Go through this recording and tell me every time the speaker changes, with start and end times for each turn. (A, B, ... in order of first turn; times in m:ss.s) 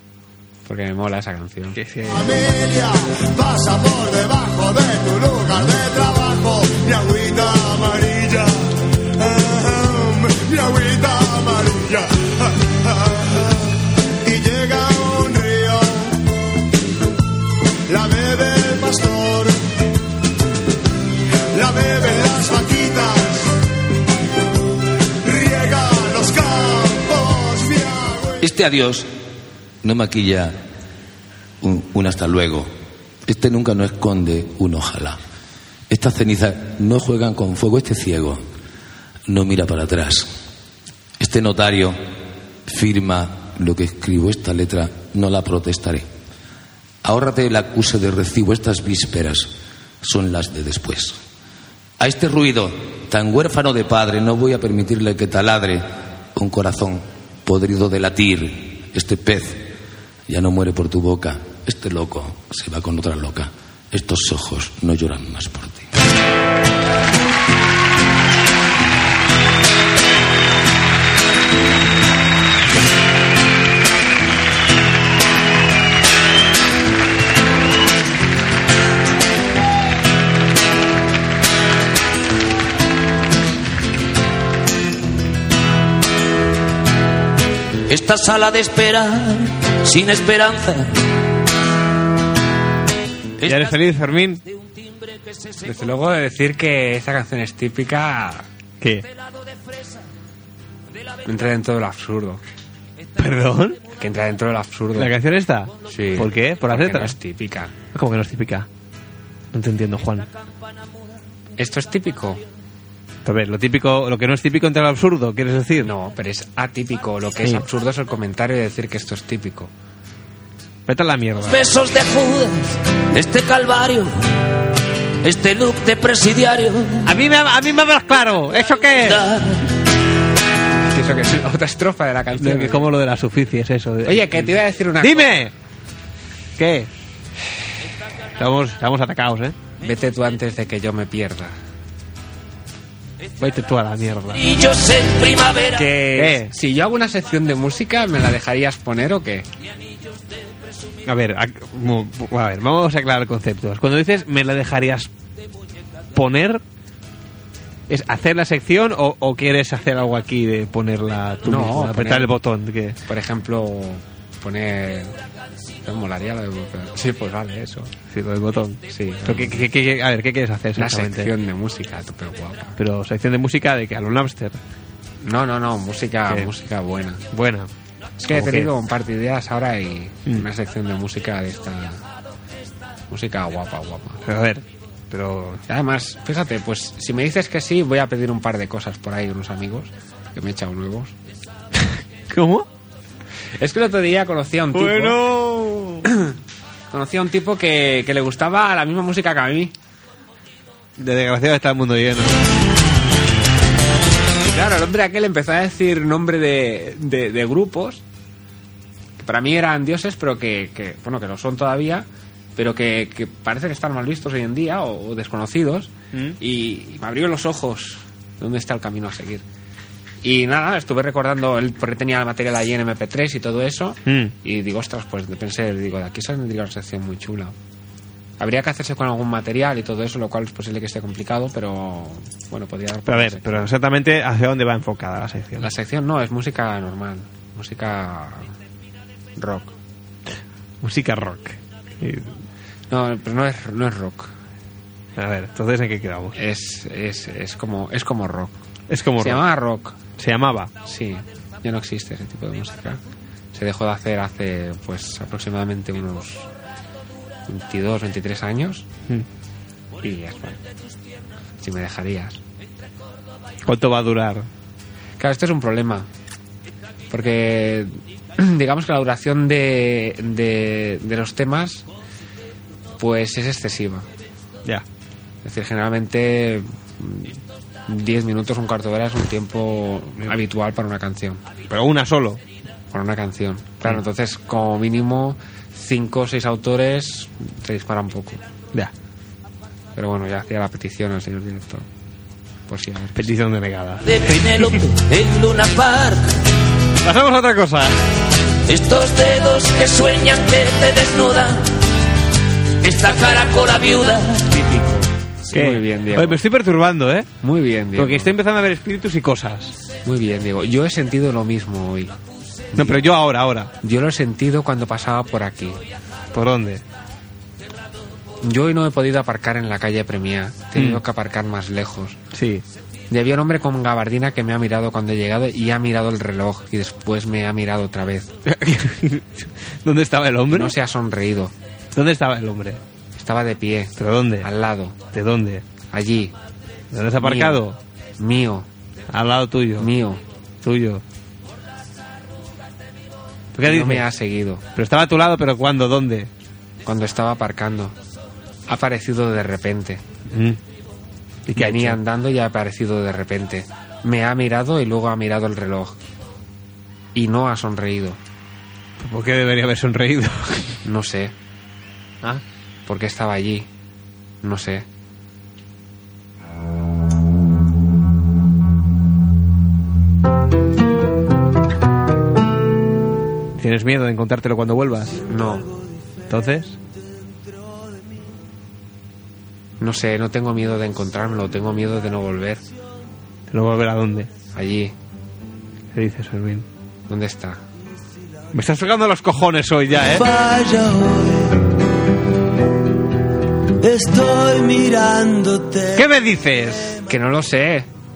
0:00.6-0:01.8 A
0:01.7-0:02.3 B
0:02.1-0:16.2 C
0:17.9-0:19.6 C
0:21.5-0:23.5 C
0:25.2-0:28.4 C
0:28.4-0:29.1 D
0:29.8-0:30.6 D
0:31.6-0:32.7 D
0:33.2-0:35.2 D
0:35.9-0:38.4 D
0:39.3-0:40.3 D
0:41.2-0:42.0 D
0:42.7-0:46.0 D
0:47.0-0:51.2 D
0:52.0-0:59.7 D
1:00.3-1:05.9 D
1:27.9-1:31.0 E
1:33.4-1:33.8 E
1:33.4-1:34.4 B
1:35.0-1:35.5 E
1:35.6-1:38.5 A
1:38.8-1:39.1 B
1:41.2-1:42.4 A
1:43.2-1:43.8 B
1:44.0-1:45.1 A
1:45.0-1:47.2 B
1:45.9-1:47.7 A
1:47.9-1:48.7 B
1:49.5-1:50.3 B
1:51.6-1:52.4 A
1:53.2-1:55.9 B
1:55.8-1:59.7 A
2:00.9-2:01.7 B
2:01.4-2:04.2 E
2:05.2-2:07.1 E
2:07.0-2:09.2 B
2:09.0-2:09.6 E
2:10.9-2:12.9 A
2:12.4-2:15.5 B
2:14.0-2:15.4 A
2:16.6-2:16.9 B
2:18.4-2:19.6 B
2:19.8-2:21.6 A
2:23.4-2:24.6 B
2:24.4-2:25.9 E
2:25.6-2:29.5 A
2:26.2-2:26.5 B
2:31.1-2:35.1 B
2:36.2-2:36.6 B
2:37.9-2:43.0 B
2:41.4-2:42.3 A
2:43.1-2:45.2 A
2:45.8-2:47.9 A
2:48.1-2:51.3 B
2:48.9-2:49.7 A
2:50.8-2:52.8 A
2:52.8-2:54.6 B
2:55.2-2:57.2 A
2:57.3-2:57.7 B
2:58.2-3:02.0 A
2:58.3-2:58.7 B
3:03.1-3:04.2 A
3:04.2-3:05.6 B
3:05.7-3:11.2 A
3:11.8-3:12.7 B
3:13.6-3:15.2 A
3:14.7-3:16.1 B
3:16.1-3:16.4 A
3:16.9-3:19.7 A
3:21.0-3:22.4 B
3:24.5-3:28.0 A
3:29.2-3:39.4 A
3:36.1-3:36.4 B
3:40.2-3:47.6 A
3:44.1-3:44.3 B
3:48.4-3:53.7 A
3:53.1-3:55.7 B
3:55.6-3:58.5 A
3:59.4-3:59.7 A
4:00.8-4:02.4 B
4:02.9-4:04.3 A
4:05.2-4:06.4 B
4:06.4-4:08.5 A
4:08.9-4:09.5 B
4:09.2-4:10.0 A
4:10.2-4:10.7 B
4:10.8-4:13.0 A
4:13.5-4:16.5 A
4:17.5-4:18.9 A
4:20.0-4:20.6 A
4:21.6-4:22.4 A
4:23.7-4:24.5 B
4:25.2-4:26.1 A
4:27.1-4:31.9 A
4:33.0-4:34.1 A
4:35.4-4:41.4 A
4:41.7-4:42.4 B
4:42.9-4:48.4 A
4:50.0-4:51.9 A
4:52.7-4:53.3 A
4:53.2-4:54.8 B
4:54.0-4:56.4 E
4:57.0-4:58.0 B
4:58.7-5:01.8 E
5:02.8-5:04.5 E
5:04.4-5:06.4 A
5:05.5-5:07.3 B
5:07.4-5:08.3 A
5:08.0-5:09.8 B
5:10.0-5:12.2 A
5:12.8-5:13.0 A
5:12.8-5:13.7 B
5:13.8-5:15.8 A
5:16.3-5:16.8 B
5:18.4-5:22.2 A
5:20.8-5:21.0 B
5:22.3-5:22.6 B
5:23.1-5:28.4 A
5:28.5-5:30.8 B
5:30.5-5:31.5 A
5:31.9-5:32.8 B
5:33.1-5:35.0 A
5:34.0-5:34.5 B
5:35.1-5:35.6 B
5:35.9-5:36.4 A
5:36.9-5:37.8 B
5:37.2-5:37.6 A
5:38.2-5:38.7 A
5:39.1-5:39.9 B
5:39.8-5:40.2 A
5:40.6-5:41.0 B
5:43.6-5:44.1 B
5:43.6-5:44.6 A
5:44.8-5:46.3 B
5:46.8-5:48.0 A
5:48.7-5:50.0 A
5:50.3-5:50.6 B
5:51.5-5:52.0 B
5:51.5-5:56.0 A
5:57.1-5:58.2 A
5:59.0-6:00.8 B
6:00.8-6:01.3 A
6:02.9-6:03.7 A
6:04.4-6:04.9 A
6:13.6-6:15.2 B
6:15.3-6:15.7 A
6:16.3-6:16.8 B
6:19.8-6:22.7 A
6:23.5-6:24.3 B
6:24.5-6:25.0 A
6:25.9-6:26.7 B
6:27.1-6:27.6 A
6:28.5-6:30.3 B
6:30.1-6:31.6 F
6:33.8-6:36.1 F
6:36.0-6:37.0 B
6:37.1-6:37.9 A